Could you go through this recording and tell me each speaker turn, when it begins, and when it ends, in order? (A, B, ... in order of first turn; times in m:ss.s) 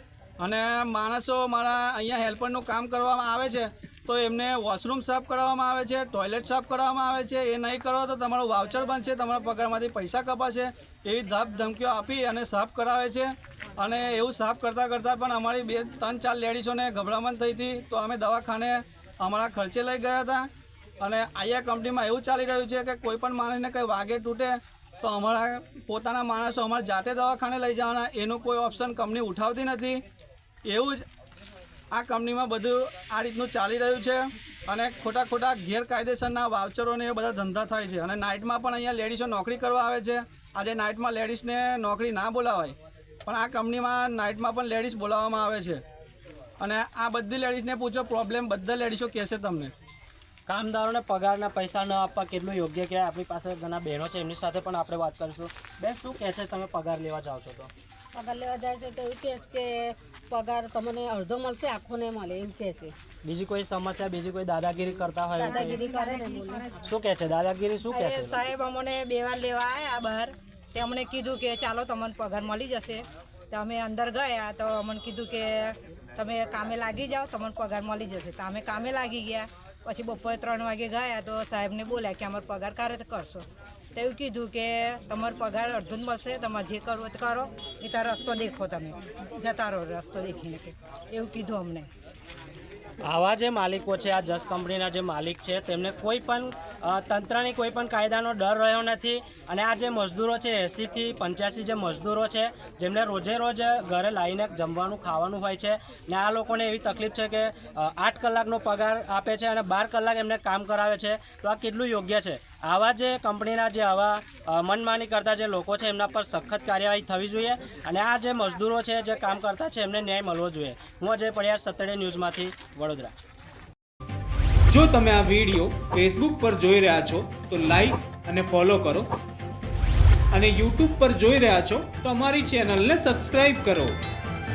0:00.4-0:20.5 A
0:21.0-0:30.0 A
0:30.7-0:31.0 A
0:31.9-0:45.8 A
0:46.6-0:49.7 A
0:50.5-0:57.7 B
0:58.1-1:03.0 C
1:03.2-1:05.8 B
1:05.4-1:06.9 D
1:05.4-1:06.7 C
1:06.8-1:08.4 B
1:07.9-1:31.9 D
1:33.0-2:03.2 B
2:04.7-2:09.1 E
2:10.3-2:14.0 E